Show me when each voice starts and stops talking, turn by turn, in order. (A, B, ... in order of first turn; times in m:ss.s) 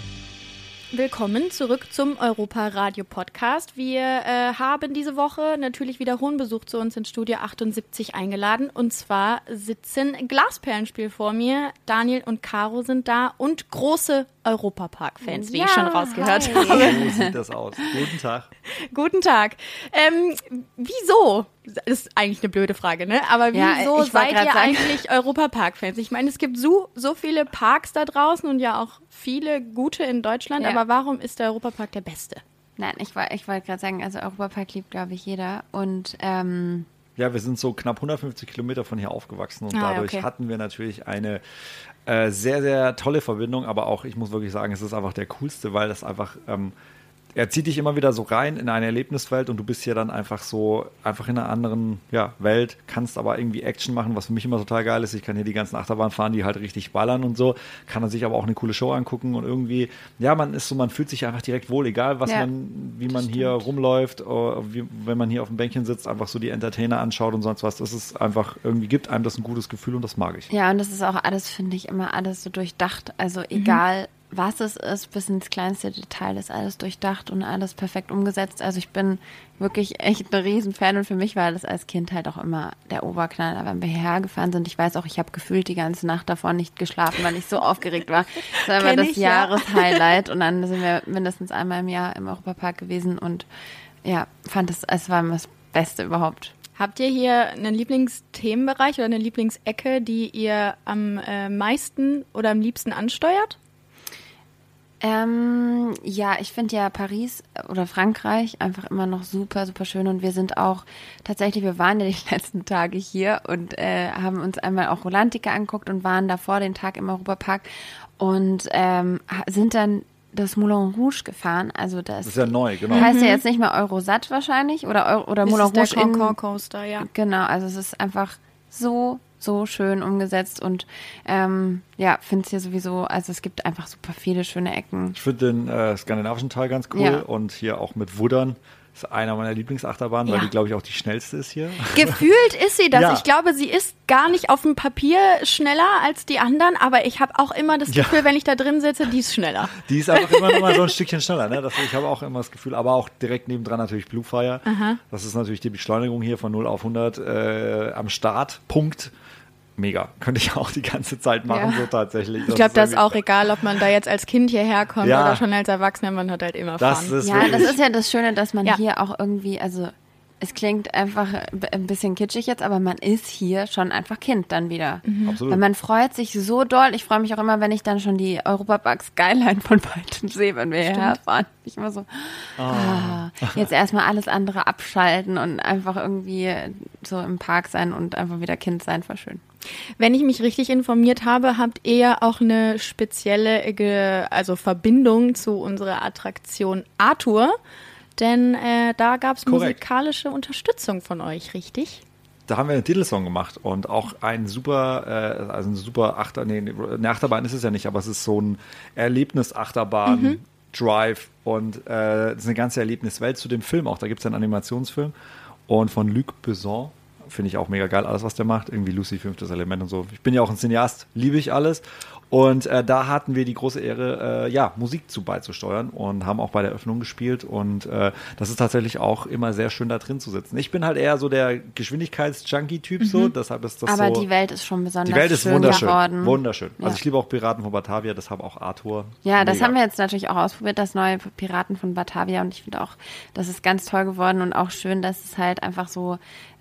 0:00.9-0:17.0 A
0:15.2-0:17.9 B
0:16.5-0:18.5 C
0:18.9-0:32.4 A
0:23.5-0:25.0 B
0:32.8-0:36.9 B
0:37.2-0:41.4 C
0:39.7-0:40.3 A
0:42.1-0:46.7 C
0:47.4-1:10.5 C
1:03.1-1:03.6 B
1:10.5-1:33.5 B
1:13.6-1:13.8 A
1:28.8-1:30.0 A
1:34.0-1:36.5 B
1:36.8-1:43.6 A
1:45.0-1:57.7 B
1:58.2-2:06.4 B
2:02.2-2:03.1 C
2:02.9-2:03.4 A
2:05.4-2:07.1 A
2:07.0-2:15.2 B
2:15.2-2:22.2 C
2:16.9-2:17.2 B
2:21.9-2:30.8 A
2:22.9-2:23.2 C
2:27.9-2:28.3 C
2:29.8-2:39.1 C
2:34.7-2:35.0 A
2:39.8-2:43.2 C
2:41.5-2:41.9 B
2:42.5-2:47.7 A
2:45.0-2:45.4 C
2:46.8-2:47.8 C
2:47.2-3:09.4 B
2:55.0-2:55.4 A
2:55.2-2:55.6 C
3:00.8-3:01.2 A
3:02.6-3:03.6 C
3:10.0-3:17.6 A
3:18.2-3:22.0 A
3:19.5-3:19.8 C
3:22.5-3:35.1 C
3:30.1-3:30.4 A
3:35.7-3:54.3 C
3:53.0-3:53.3 A
3:53.8-3:57.0 B
3:55.1-3:59.8 C
3:55.6-3:55.9 A
3:59.2-4:06.2 B